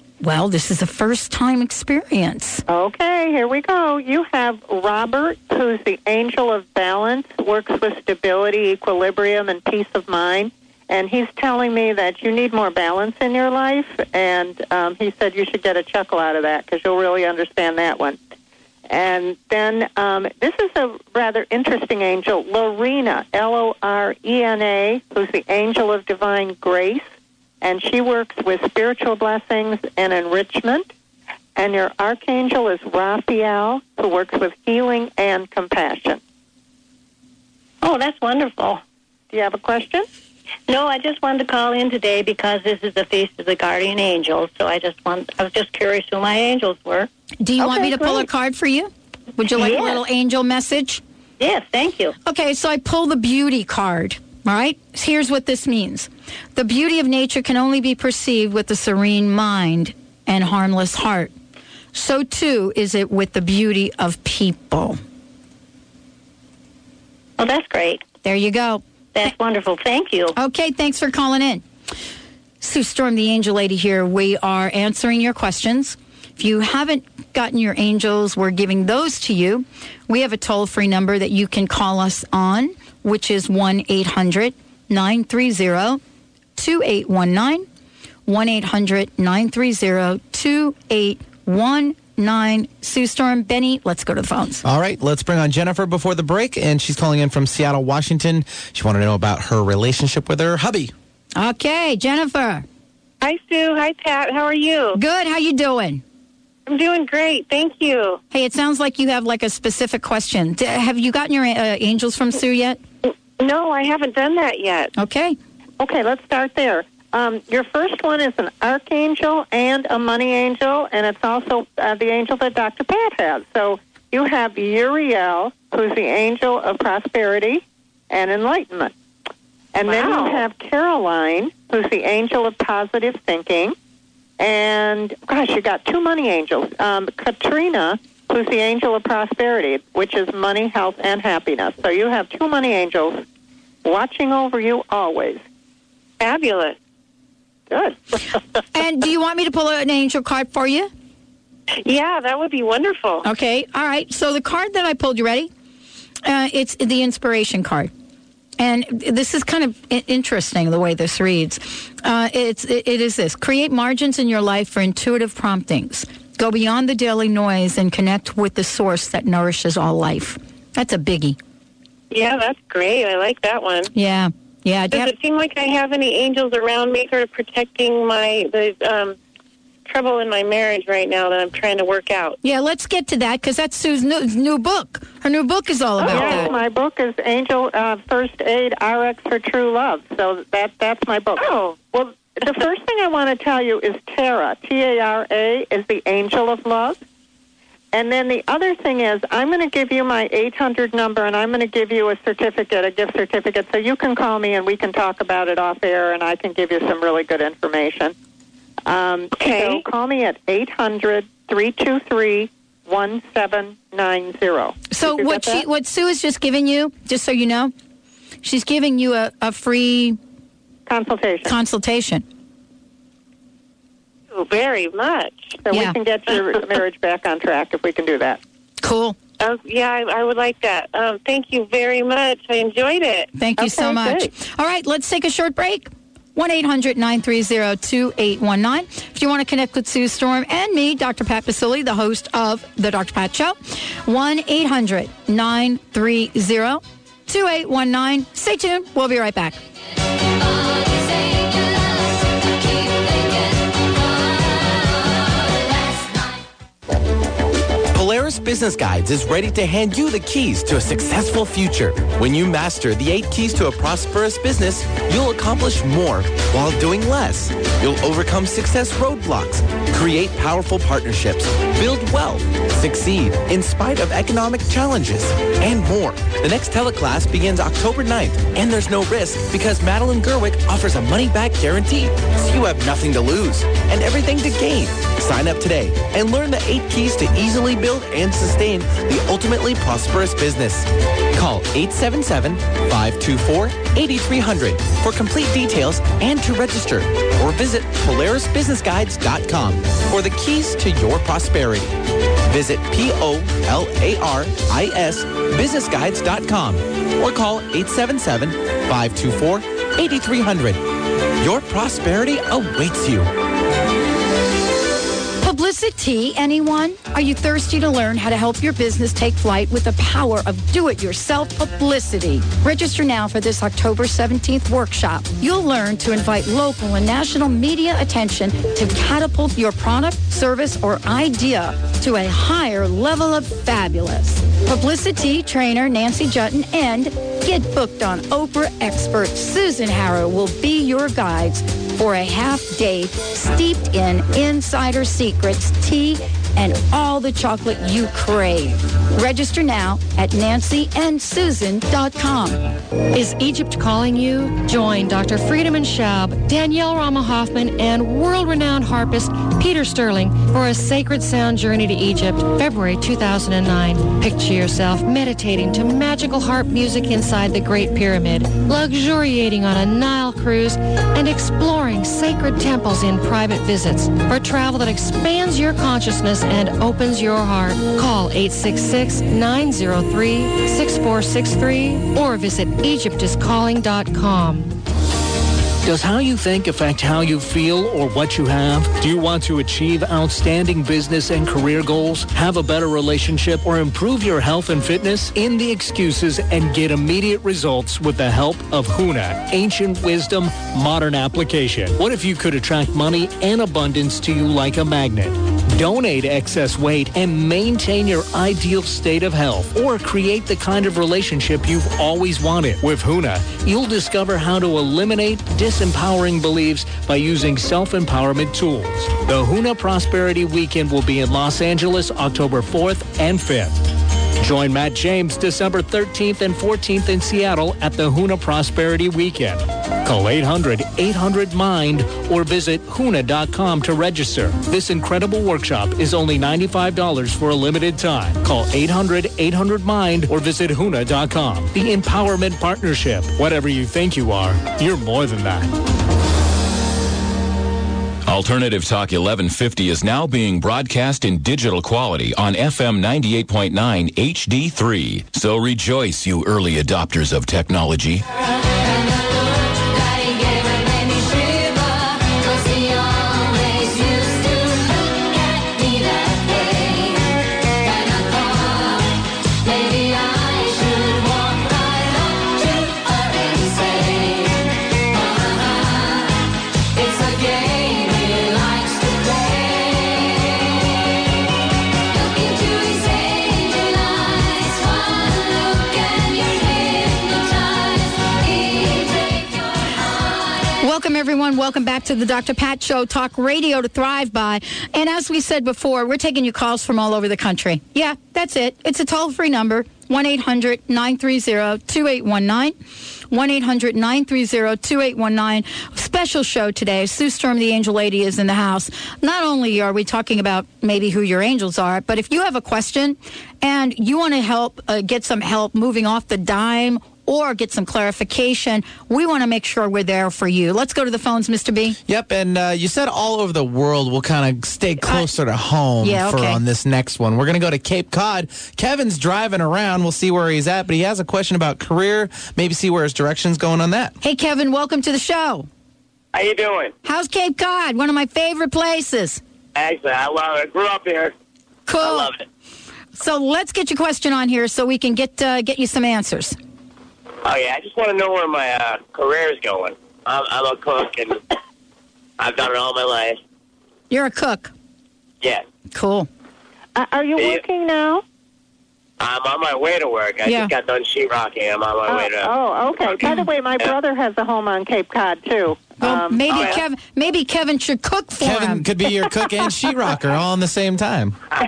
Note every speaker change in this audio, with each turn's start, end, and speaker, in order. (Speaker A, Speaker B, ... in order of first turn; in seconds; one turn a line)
Speaker A: 0.2-2.6
Speaker B: 2.7-18.2
Speaker B: 18.9-27.1
Speaker B: 27.6-30.9
Speaker B: 31.6-36.2
Speaker C: 37.8-38.8
Speaker B: 39.3-40.1
Speaker C: 40.7-47.1
Speaker A: 47.4-51.0
Speaker C: 47.6-48.2
Speaker C: 49.5-50.0
Speaker C: 51.4-52.1
Speaker A: 52.2-61.3
Speaker A: 61.9-65.0
Speaker C: 67.4-68.0
Speaker A: 68.2-68.8
Speaker C: 69.1-70.3
Speaker A: 70.3-71.6
Speaker A: 72.6-86.0
Speaker A: 86.6-87.7
Speaker A: 88.2-94.6
Speaker D: 94.6-100.9
Speaker A: 101.4-102.7
Speaker E: 103.2-105.0
Speaker A: 104.9-106.0
Speaker E: 106.7-108.2
Speaker A: 108.3-112.8
Speaker E: 113.0-114.9
Speaker A: 115.0-115.4
Speaker B: 115.8-128.9
Speaker B: 129.7-133.8
Speaker E: 129.9-130.4
Speaker B: 134.4-143.2
Speaker B: 143.8-145.4
Speaker E: 146.2-146.8
Speaker B: 147.7-148.0
Speaker A: 148.7-150.9
Speaker E: 151.8-153.2
Speaker A: 153.2-155.5
Speaker A: 156.2-157.9
Speaker A: 158.6-171.4
Speaker E: 172.1-173.9
Speaker A: 173.9-175.1
Speaker E: 174.9-179.2
Speaker E: 179.9-182.4
Speaker A: 182.4-186.5
Speaker E: 186.0-186.6
Speaker B: 186.0-197.0
Speaker E: 191.4-191.8
Speaker B: 197.9-208.1
Speaker B: 208.9-215.6
Speaker E: 209.3-209.8
Speaker A: 214.9-217.7
Speaker A: 218.4-220.2
Speaker B: 220.9-221.5
Speaker A: 221.4-222.2
Speaker E: 224.3-225.6
Speaker B: 225.6-228.4
Speaker A: 225.7-226.0
Speaker A: 228.8-229.2
Speaker E: 229.4-233.3
Speaker A: 233.3-249.6
Speaker B: 233.6-234.3
Speaker D: 257.9-310.8
Speaker D: 311.4-313.3
Speaker A: 315.4-352.6
Speaker F: 353.1-384.7
Speaker G: 385.8-423.8
Speaker G: 424.4-445.7
Speaker H: 448.3-458.2
Speaker A: 490.8-502.8
Speaker A: 503.3-522.0
Speaker D: 522.1-534.1
Speaker A: 525.0-525.3
Speaker A: 526.0-526.6
Speaker A: 534.2-535.7
Speaker I: 536.3-536.9
Speaker A: 537.0-539.4
Speaker I: 539.8-541.3
Speaker A: 541.9-542.3
Speaker I: 542.0-542.5
Speaker A: 543.1-546.6
Speaker I: 547.5-551.4
Speaker I: 552.4-553.4
Speaker A: 554.1-554.7
Speaker A: 555.9-556.3
Speaker B: 557.0-558.2
Speaker I: 559.2-562.5
Speaker A: 560.5-560.7
Speaker B: 562.1-566.8
Speaker I: 563.0-563.9
Speaker A: 566.0-568.9
Speaker D: 568.4-571.4